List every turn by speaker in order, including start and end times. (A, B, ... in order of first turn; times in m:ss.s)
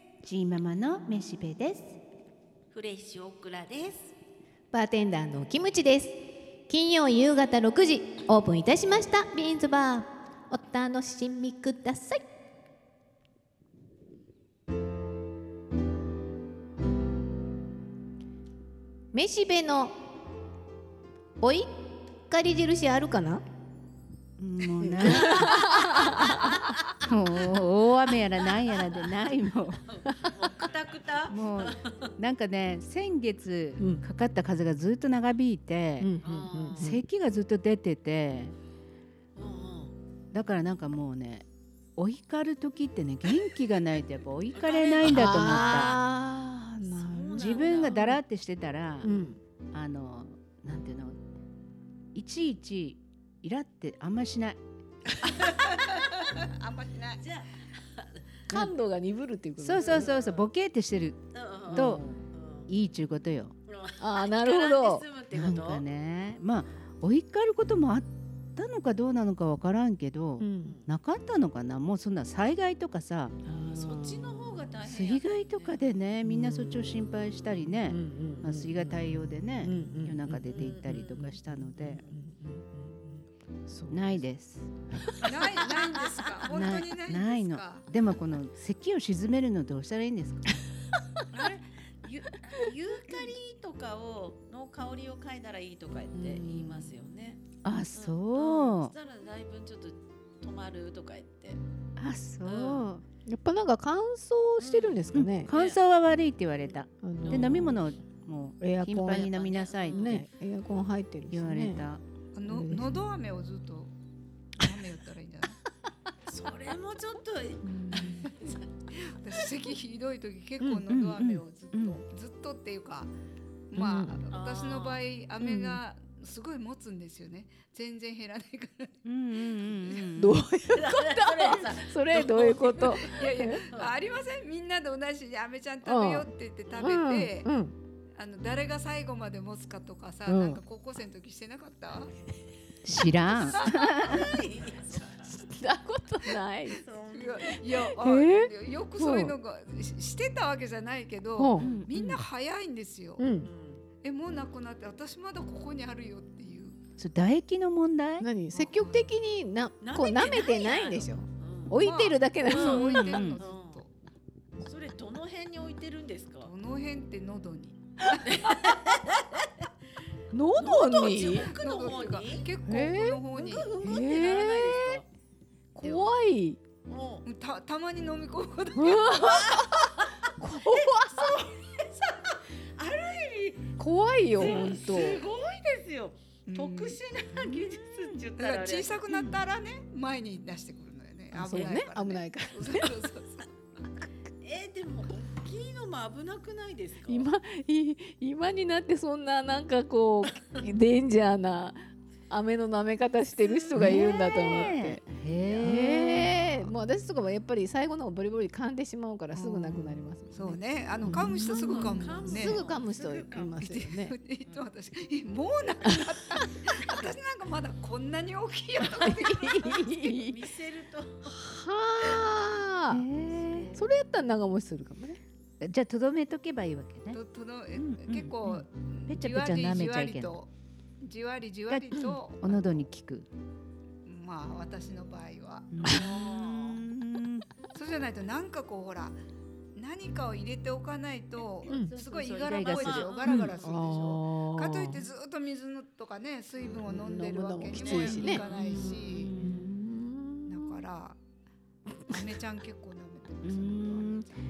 0:00.2-0:02.0 A
0:02.7-0:04.1 B
0:04.7-0:12.2 C
0:19.1-0:20.0 C
0:21.4-0:23.4 C
0:24.4-0:26.3 A
0:24.8-0:26.6 C
0:26.1-0:26.4 B
0:27.0-0:29.8 A
0:29.9-0:32.1 B
0:30.1-0:30.3 C
0:31.3-0:36.1 A
0:33.8-0:34.0 C
0:36.0-0:37.0 C
0:36.2-0:36.9 B
0:36.8-0:38.6 A
0:39.4-0:39.9 B
0:40.3-0:41.5 A
0:42.0-0:46.0 A
0:44.5-0:46.0 B
0:45.1-0:48.2 C
0:46.9-0:48.0 B
0:47.4-0:49.1 A
0:49.0-0:49.4 C
0:49.7-0:51.2 A
0:52.2-0:54.6 A
0:55.2-0:56.2 B
0:55.5-0:57.4 D
0:57.2-0:58.3 B
0:58.5-1:00.1 C
0:59.6-1:02.0 A
0:59.8-1:00.5 B
1:01.3-1:02.7 B
1:01.7-1:02.2 C
1:02.7-1:03.6 A
1:03.7-1:05.8 B
1:04.0-1:05.1 C
1:05.3-1:13.4 A
1:10.4-1:10.8 C
1:13.4-1:14.7 C
1:13.7-1:15.8 B
1:14.8-1:22.0 A
1:16.2-1:17.3 C
1:17.8-1:24.2 C
1:20.5-1:20.9 B
1:23.9-1:24.7 A
1:24.9-1:25.5 C
1:25.2-1:27.9 D
1:25.2-1:26.4 B
1:26.5-1:30.5 A
1:31.3-1:37.4 B
1:36.1-1:37.0 C
1:37.6-1:38.9 A
1:37.9-1:41.6 B
1:42.0-1:43.0 A
1:42.4-1:42.9 B
1:43.2-1:45.5 C
1:44.6-1:45.8 B
1:45.1-1:50.3 A
1:47.0-1:47.8 C
1:47.2-1:47.8 B
1:48.6-1:51.8 C
1:49.3-1:50.2 B
1:51.3-1:52.0 A
1:52.3-1:53.9 D
1:52.5-1:53.0 C
1:54.6-1:55.6 D
1:56.3-1:58.7 B
1:57.6-1:58.3 C
1:58.0-1:58.3 D
1:58.9-2:03.1 D
2:00.6-2:01.4 C
2:00.9-2:02.0 A
2:03.7-2:09.0 D
2:03.8-2:04.2 C
2:04.3-2:05.0 B
2:05.4-2:05.8 C
2:09.0-2:10.4 A
2:09.6-2:10.1 D
2:10.2-2:13.7 C
2:10.8-2:13.9 B
2:12.1-2:17.5 D
2:15.8-2:17.7 C
2:18.2-2:22.1 D
2:20.3-2:20.6 C
2:22.8-2:24.4 A
2:23.6-2:25.2 B
2:25.2-2:26.8 C
2:26.7-2:27.6 B
2:27.1-2:33.2 D
2:27.7-2:29.4 C
2:31.4-2:32.2 C
2:31.6-2:31.9 A
2:33.2-2:33.5 C
2:33.4-2:33.8 B
2:34.0-2:36.8 D
2:37.0-2:38.3 A
2:38.2-2:43.4 C
2:38.5-2:39.1 D
2:39.8-2:41.8 B
2:41.7-2:43.9 D
2:42.5-2:43.8 B
2:43.0-2:43.4 A
2:44.6-2:46.5 B
2:46.4-2:48.5 D
2:48.2-2:49.5 B
2:50.3-2:51.5 C
2:50.6-2:52.5 B
2:51.0-2:53.7 D
2:52.7-2:53.2 C
2:53.3-2:55.0 B
2:53.8-2:55.0 C
2:55.8-2:56.6 C
2:55.8-2:56.1 D
2:56.9-2:57.2 B
2:57.2-2:59.4 D
2:58.8-3:01.5 C
2:59.2-3:03.7 B
3:03.8-3:05.2 C
3:04.4-3:09.0 B
3:06.5-3:07.0 D
3:08.4-3:13.5 D
3:11.3-3:13.0 C
3:14.4-3:17.3 B
3:17.0-3:25.0 C
3:23.5-3:24.7 B
3:23.8-3:26.3 A
3:25.4-3:26.4 B
3:25.6-3:34.2 C
3:29.3-3:32.6 D
3:31.3-3:33.6 B
3:33.6-3:39.8 D
3:38.9-3:40.5 C
3:39.6-3:41.4 B
3:41.2-3:43.0 C
3:42.9-3:43.8 A
3:43.4-3:43.8 B
3:43.5-3:43.8 D
3:43.7-3:45.2 C
3:45.6-3:47.2 A
3:47.1-3:50.5 D
3:47.8-3:50.4 A
3:51.0-3:52.8 D
3:51.7-3:53.3 A
3:51.9-3:52.2 C
3:54.1-3:56.8 D
3:55.7-3:57.5 A
3:55.9-3:56.8 B
3:57.7-3:59.2 D
3:59.8-4:09.3 D
4:01.7-4:02.0 C
4:02.0-4:03.2 A
4:02.7-4:03.9 B
4:03.2-4:05.0 C
4:06.9-4:10.8 C
4:07.7-4:09.6 B
4:10.5-4:11.2 D
4:12.1-4:14.3 D
4:13.4-4:14.3 A